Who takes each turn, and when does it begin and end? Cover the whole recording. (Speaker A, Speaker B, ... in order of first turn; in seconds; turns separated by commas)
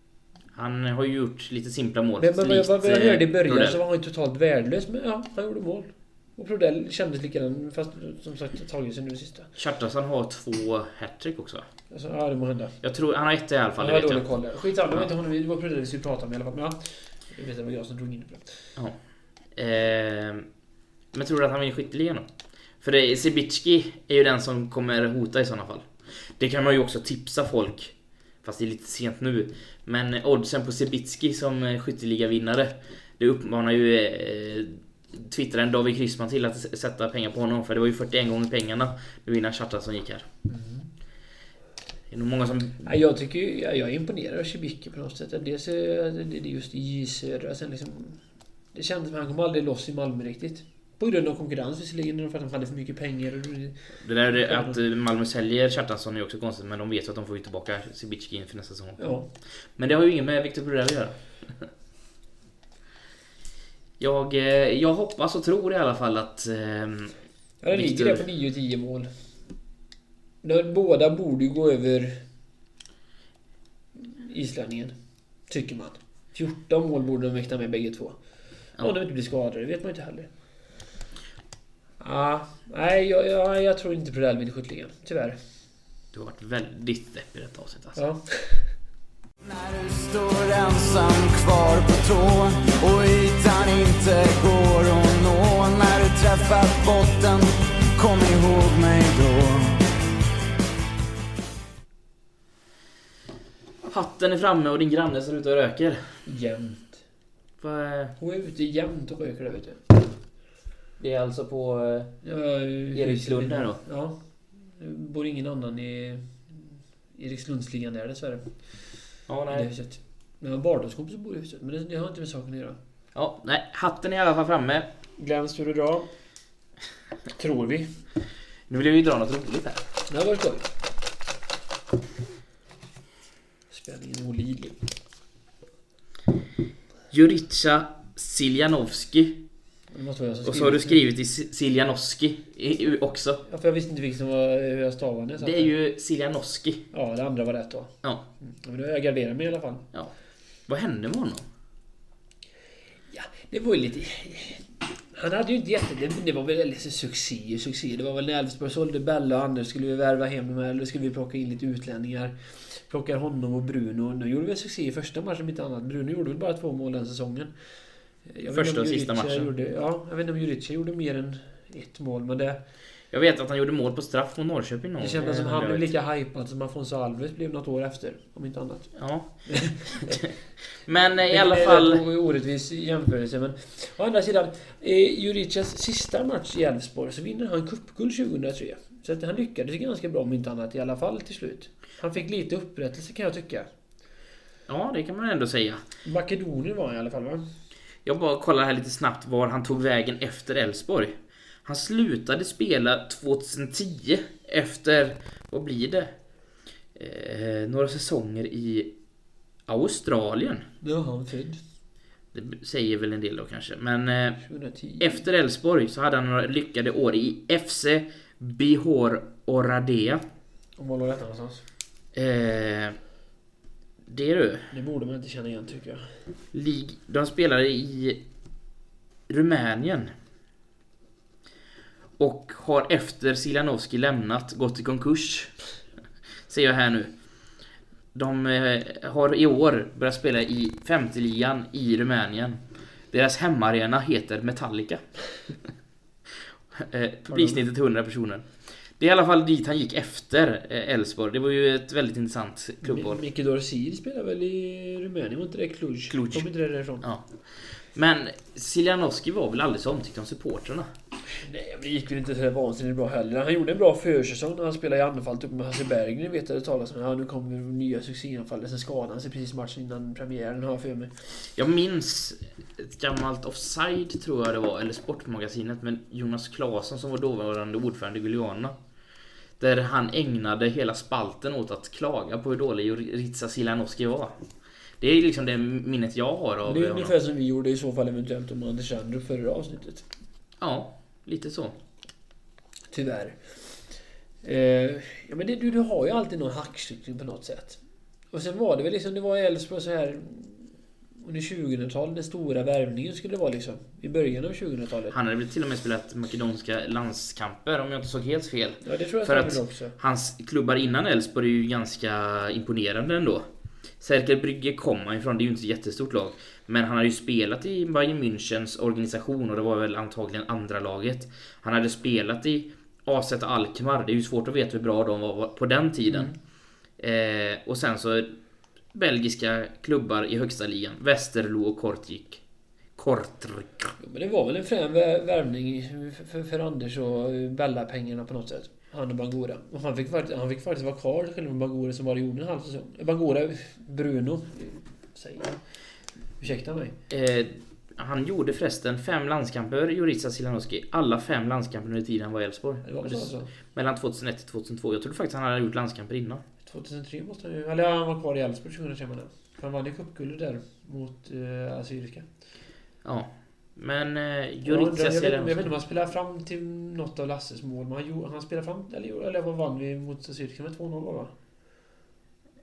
Speaker A: 0.6-3.8, Speaker B: 2.2-9.5, Speaker A: 9.6-11.7, Speaker B: 11.9-12.8, Speaker A: 12.8-14.2, Speaker B: 13.8-18.7, Speaker A: 19.5-20.5, Speaker A: 21.1-22.3, Speaker A: 22.8-40.3, Speaker B: 40.5-40.9, Speaker A: 42.1-42.9, Speaker B: 42.8-54.8, Speaker A: 54.0-59.1, Speaker B: 59.0-59.3, Speaker A: 59.8-61.7, Speaker A: 64.0-67.2, Speaker B: 67.6-69.1, Speaker A: 67.7-68.2, Speaker B: 70.4-72.2, Speaker B: 74.0-75.0, Speaker B: 75.5-78.2, Speaker B: 78.8-80.3, Speaker B: 82.0-85.4, Speaker A: 86.1-88.0, Speaker B: 88.0-88.8, Speaker C: 89.4-99.8, Speaker A: 103.9-106.2, Speaker B: 106.3-107.0, Speaker A: 107.6-108.2, Speaker B: 108.2-109.8, Speaker A: 111.0-112.2, Speaker B: 112.2-119.0, Speaker A: 112.9-113.8, Speaker A: 119.3-119.7, Speaker B: 119.5-122.8, Speaker A: 123.1-124.9, Speaker B: 125.2-126.1, Speaker B: 127.4-127.9, Speaker A: 128.7-129.8, Speaker B: 130.1-130.7, Speaker B: 133.7-134.8, Speaker A: 137.1-139.4, Speaker B: 139.9-141.0, Speaker A: 140.4-143.4, Speaker B: 143.5-145.7, Speaker A: 145.4-146.9, Speaker B: 146.9-149.9, Speaker A: 150.7-151.4, Speaker B: 153.1-167.5, Speaker B: 168.2-172.6, Speaker A: 168.5-169.5, Speaker A: 173.1-175.9, Speaker B: 175.0-180.3, Speaker A: 179.0-180.3, Speaker A: 180.8-182.0, Speaker B: 181.3-193.7, Speaker A: 194.7-195.8, Speaker B: 196.1-197.5, Speaker A: 198.1-206.1, Speaker A: 206.9-208.9, Speaker A: 209.7-210.7, Speaker B: 210.8-211.6, Speaker A: 212.3-214.4, Speaker B: 214.4-215.2, Speaker A: 215.0-220.2, Speaker B: 220.8-221.6, Speaker A: 222.1-223.0, Speaker A: 224.1-224.7, Speaker B: 224.7-226.1, Speaker A: 226.5-228.2, Speaker A: 229.3-230.1, Speaker A: 232.2-235.6, Speaker A: 236.5-237.1, Speaker A: 238.1-245.7, Speaker A: 246.3-253.2, Speaker B: 247.3-247.6, Speaker B: 252.8-257.1, Speaker A: 256.1-256.5, Speaker A: 257.0-260.9, Speaker B: 261.3-271.1, Speaker A: 271.6-278.8, Speaker A: 279.6-284.4, Speaker A: 285.0-287.1, Speaker B: 286.6-290.1, Speaker A: 290.6-291.8, Speaker B: 292.9-293.8, Speaker B: 294.4-297.8, Speaker B: 298.3-300.7, Speaker B: 301.2-305.1, Speaker A: 305.1-313.5, Speaker B: 308.8-309.9, Speaker A: 314.0-326.4, Speaker B: 326.1-326.4, Speaker A: 327.0-328.4, Speaker A: 328.9-332.4, Speaker A: 333.0-333.9, Speaker B: 334.0-345.6, Speaker B: 346.4-346.9, Speaker A: 347.1-356.4, Speaker B: 352.8-353.5, Speaker B: 356.6-362.3, Speaker A: 363.0-365.7, Speaker B: 364.6-371.3